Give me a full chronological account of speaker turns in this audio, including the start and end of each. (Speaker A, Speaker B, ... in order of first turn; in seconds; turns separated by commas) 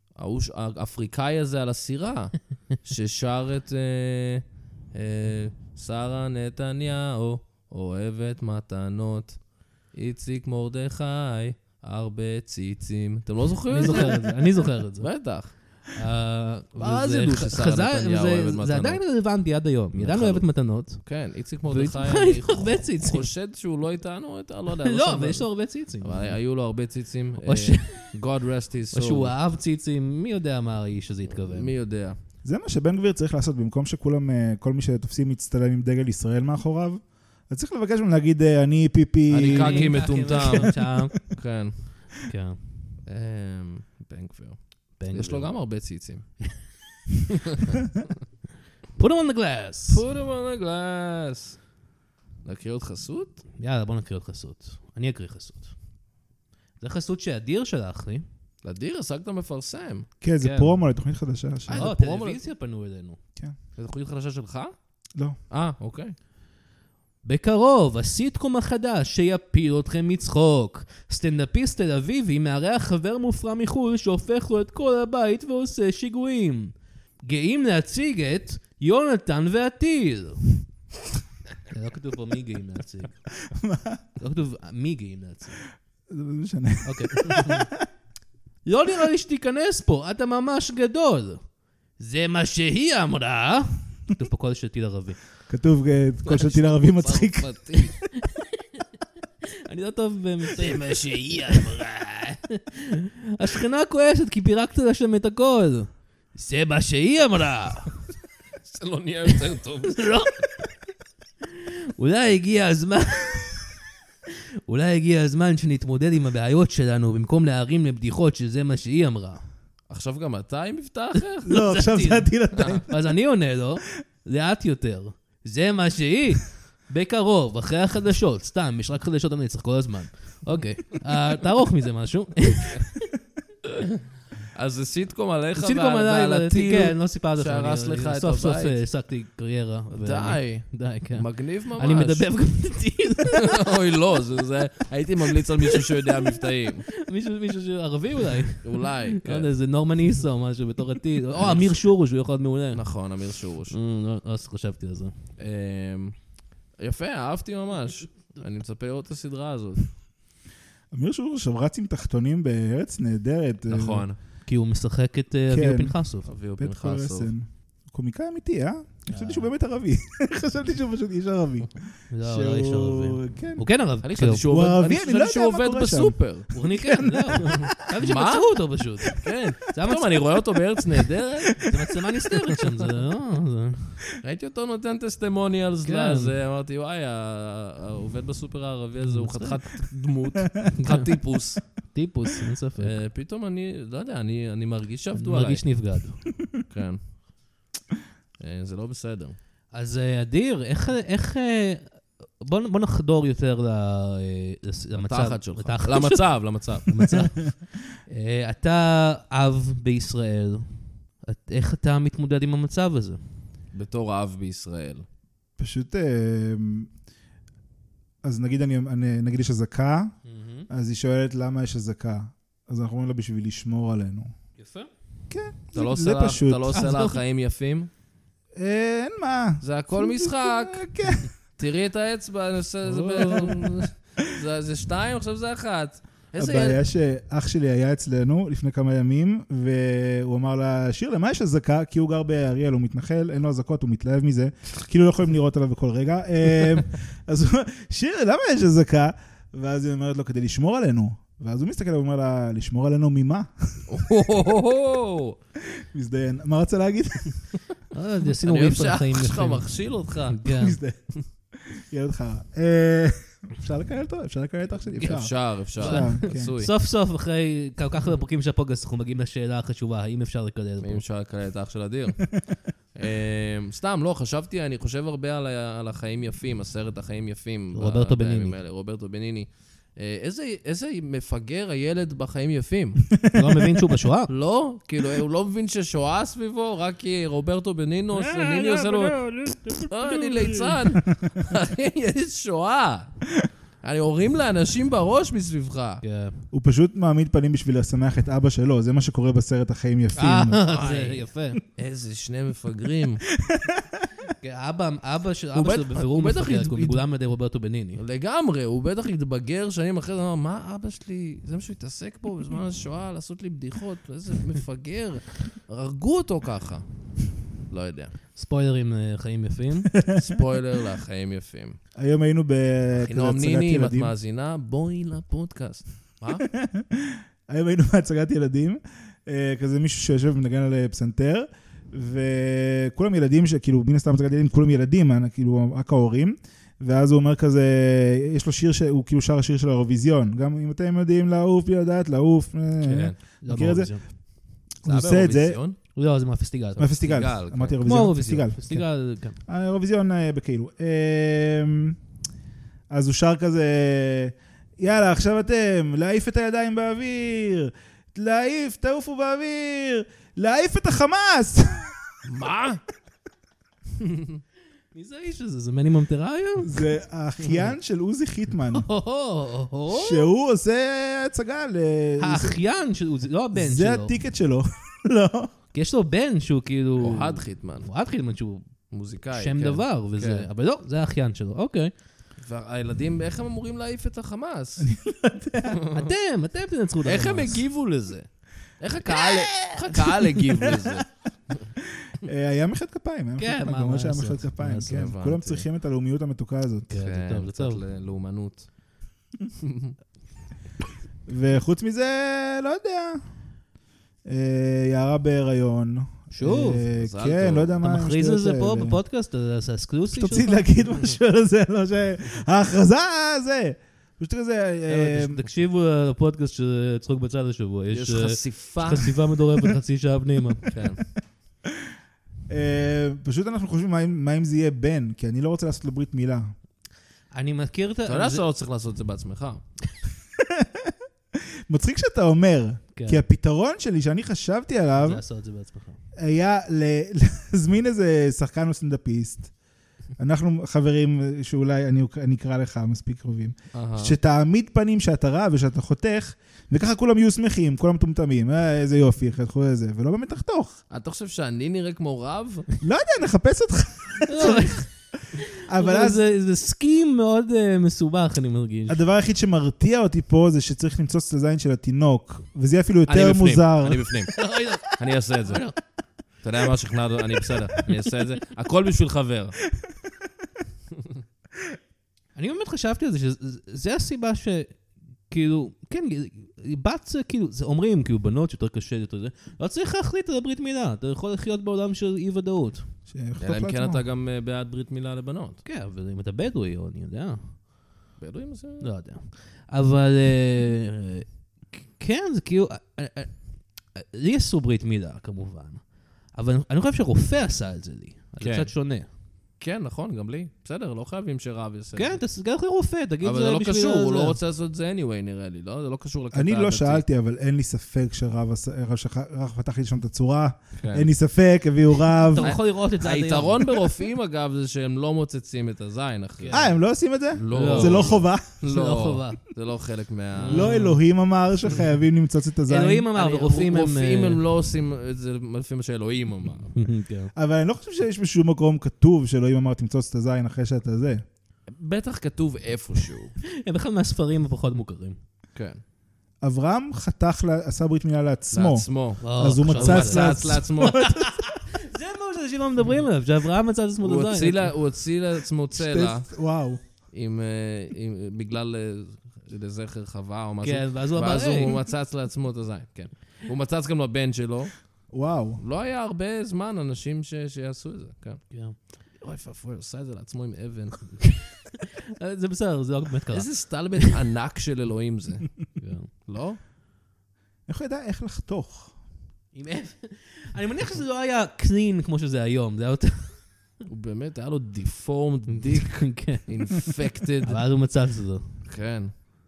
Speaker A: 0.2-15.6, Speaker B: 13.7-23.3, Speaker A: 16.7-19.0, Speaker A: 20.0-29.3, Speaker B: 24.8-26.4, Speaker B: 27.4-28.2, Speaker B: 28.9-31.7, Speaker A: 31.3-32.2, Speaker C: 32.4-41.1, Speaker A: 39.3-42.1, Speaker B: 39.4-41.3, Speaker B: 42.2-42.6, Speaker A: 43.0-46.4, Speaker B: 45.0-45.5, Speaker A: 47.5-47.8, Speaker B: 49.0-50.0, Speaker A: 49.9-51.6, Speaker A: 52.4-53.4, Speaker B: 53.6-55.7, Speaker B: 56.8-58.2, Speaker A: 58.6-60.1, Speaker C: 60.2-61.9, Speaker B: 60.4-60.8, Speaker A: 61.7-62.4, Speaker B: 61.7-63.2, Speaker A: 63.8-64.7, Speaker A: 65.5-66.1, Speaker B: 67.2-76.7, Speaker B: 77.2-80.6, Speaker B: 81.7-83.3, Speaker C: 83.5-84.0, Speaker B: 84.2-85.6, Speaker C: 86.1-87.8, Speaker B: 86.8-87.7, Speaker B: 88.7-91.4, Speaker B: 92.0-95.2, Speaker C: 95.5-97.9, Speaker A: 96.2-98.0, Speaker B: 99.7-108.0, Speaker A: 100.5-101.9, Speaker A: 108.6-110.0, Speaker B: 109.8-110.5, Speaker B: 111.6-119.4, Speaker A: 119.9-121.5, Speaker C: 121.4-122.8, Speaker B: 121.5-133.1, Speaker A: 122.5-122.8, Speaker A: 134.5-138.8, Speaker B: 135.6-143.7, Speaker A: 139.9-142.3, Speaker A: 143.4-146.9, Speaker B: 145.4-146.4, Speaker B: 146.9-152.8, Speaker A: 148.6-149.5, Speaker A: 151.3-151.8, Speaker A: 152.7-153.7, Speaker B: 153.7-155.1, Speaker A: 155.4-156.2, Speaker A: 156.8-159.9, Speaker C: 160.9-164.1, Speaker A: 163.7-164.2, Speaker B: 164.4-166.3, Speaker C: 165.5-166.0, Speaker A: 166.2-167.3, Speaker C: 166.6-173.6, Speaker B: 169.1-169.5, Speaker B: 172.1-174.4, Speaker A: 174.0-176.5, Speaker C: 174.5-178.0, Speaker B: 176.5-180.3, Speaker A: 178.0-178.5, Speaker A: 179.1-181.7, Speaker C: 181.5-182.9, Speaker B: 181.6-184.0, Speaker A: 184.2-191.6, Speaker B: 185.8-186.3, Speaker B: 189.0-189.6, Speaker B: 191.9-193.0, Speaker A: 192.8-195.6, Speaker B: 195.2-196.3, Speaker A: 196.7-197.0, Speaker A: 198.4-199.3, Speaker B: 199.7-213.2, Speaker A: 204.9-207.0, Speaker A: 213.7-215.0, Speaker C: 215.6-216.9, Speaker C: 218.2-220.1, Speaker B: 220.2-220.7, Speaker C: 220.7-224.3, Speaker B: 224.6-224.9, Speaker C: 225.3-226.8, Speaker A: 225.7-227.9, Speaker B: 226.7-227.2, Speaker C: 228.5-231.3, Speaker A: 229.6-236.8, Speaker C: 232.8-233.9, Speaker C: 236.4-253.9, Speaker A: 253.9-255.4, Speaker C: 255.7-257.5, Speaker B: 257.9-260.8, Speaker A: 258.4-260.5, Speaker C: 260.5-266.5, Speaker A: 264.9-266.7, Speaker B: 265.8-271.0, Speaker A: 270.8-272.3, Speaker A: 272.9-283.1, Speaker B: 277.7-278.6, Speaker C: 283.2-283.8, Speaker B: 283.3-284.3, Speaker A: 284.3-293.2, Speaker A: 293.8-296.0, Speaker B: 296.0-296.4, Speaker C: 296.5-300.6, Speaker B: 300.1-301.6, Speaker A: 300.6-301.2, Speaker A: 301.8-303.2, Speaker C: 303.3-304.1, Speaker B: 304.3-308.0, Speaker A: 305.5-307.0, Speaker A: 308.0-316.9, Speaker A: 317.7-318.1, Speaker B: 318.3-319.9, Speaker C: 319.9-320.2, Speaker A: 320.1-321.8, Speaker C: 321.9-324.1, Speaker A: 322.9-326.4, Speaker C: 326.5-343.9, Speaker A: 342.8-343.2, Speaker B: 343.4-344.0, Speaker C: 344.8-345.6, Speaker A: 344.8-345.8, Speaker B: 345.9-346.9, Speaker C: 346.8-348.9, Speaker A: 347.0-347.8, Speaker B: 347.8-349.4, Speaker C: 349.4-352.0, Speaker C: 352.9-362.0, Speaker A: 362.2-362.8, Speaker A: 364.0-364.4, Speaker B: 364.9-366.9, Speaker C: 366.6-368.9, Speaker B: 368.7-370.3, Speaker C: 369.9-372.6, Speaker B: 372.2-374.1, Speaker C: 373.5-375.5, Speaker B: 375.7-378.7, Speaker A: 377.0-377.9, Speaker A: 378.9-380.5, Speaker B: 379.3-381.9, Speaker A: 382.4-384.9, Speaker C: 384.8-385.8, Speaker A: 385.7-386.1, Speaker B: 385.9-387.6, Speaker A: 387.0-391.7, Speaker C: 389.1-391.0, Speaker C: 391.9-396.9, Speaker B: 393.4-395.1, Speaker A: 394.9-395.6, Speaker B: 396.9-397.8, Speaker A: 396.9-398.7, Speaker A: 399.6-399.9, Speaker C: 401.3-403.2, Speaker C: 404.2-409.0, Speaker B: 406.3-406.9, Speaker A: 406.9-407.8, Speaker B: 407.8-410.7, Speaker C: 410.1-415.4, Speaker B: 414.9-420.7, Speaker A: 417.9-419.1, Speaker A: 420.7-421.0, Speaker C: 421.6-421.9, Speaker C: 422.5-426.5, Speaker B: 427.3-428.4, Speaker A: 428.1-429.6, Speaker C: 430.4-435.2, Speaker B: 432.9-433.2, Speaker B: 434.9-436.0, Speaker C: 436.1-439.5, Speaker C: 440.2-450.8, Speaker A: 443.7-444.1, Speaker A: 450.9-452.7, Speaker C: 452.8-454.8, Speaker B: 454.3-459.0, Speaker C: 455.6-456.2, Speaker C: 458.9-464.1, Speaker A: 463.1-464.4, Speaker B: 464.3-465.8, Speaker A: 464.9-465.6, Speaker A: 466.4-469.6, Speaker B: 472.4-482.9, Speaker C: 483.1-484.0, Speaker A: 483.4-485.6, Speaker B: 485.6-487.6, Speaker A: 488.2-488.9, Speaker B: 488.8-499.1, Speaker A: 498.4-498.7, Speaker A: 499.6-502.2, Speaker B: 501.9-504.4, Speaker A: 503.2-507.0, Speaker C: 506.3-512.5, Speaker A: 510.8-511.1, Speaker B: 512.2-513.9, Speaker A: 512.4-516.6, Speaker B: 516.4-516.8, Speaker C: 516.5-518.5, Speaker A: 517.3-520.7, Speaker B: 517.5-519.4, Speaker B: 520.4-521.0, Speaker C: 520.5-523.1, Speaker B: 522.7-524.4, Speaker A: 523.1-526.7, Speaker B: 526.7-527.3, Speaker C: 527.3-531.2, Speaker A: 531.7-533.3, Speaker B: 533.5-535.2, Speaker A: 535.5-535.8, Speaker C: 536.4-541.6, Speaker A: 538.5-541.0, Speaker B: 539.2-544.8, Speaker A: 544.0-546.3, Speaker C: 545.7-546.8, Speaker A: 547.1-554.8, Speaker B: 550.6-551.8, Speaker C: 555.1-555.6, Speaker A: 555.6-558.5, Speaker B: 558.5-558.8, Speaker A: 559.0-561.3, Speaker B: 561.2-564.1, Speaker A: 563.3-565.5, Speaker B: 565.8-566.1, Speaker A: 566.2-566.6, Speaker C: 567.7-568.9, Speaker B: 569.5-573.6, Speaker A: 573.9-577.6, Speaker B: 575.5-576.9, Speaker B: 577.4-578.5, Speaker A: 578.6-579.3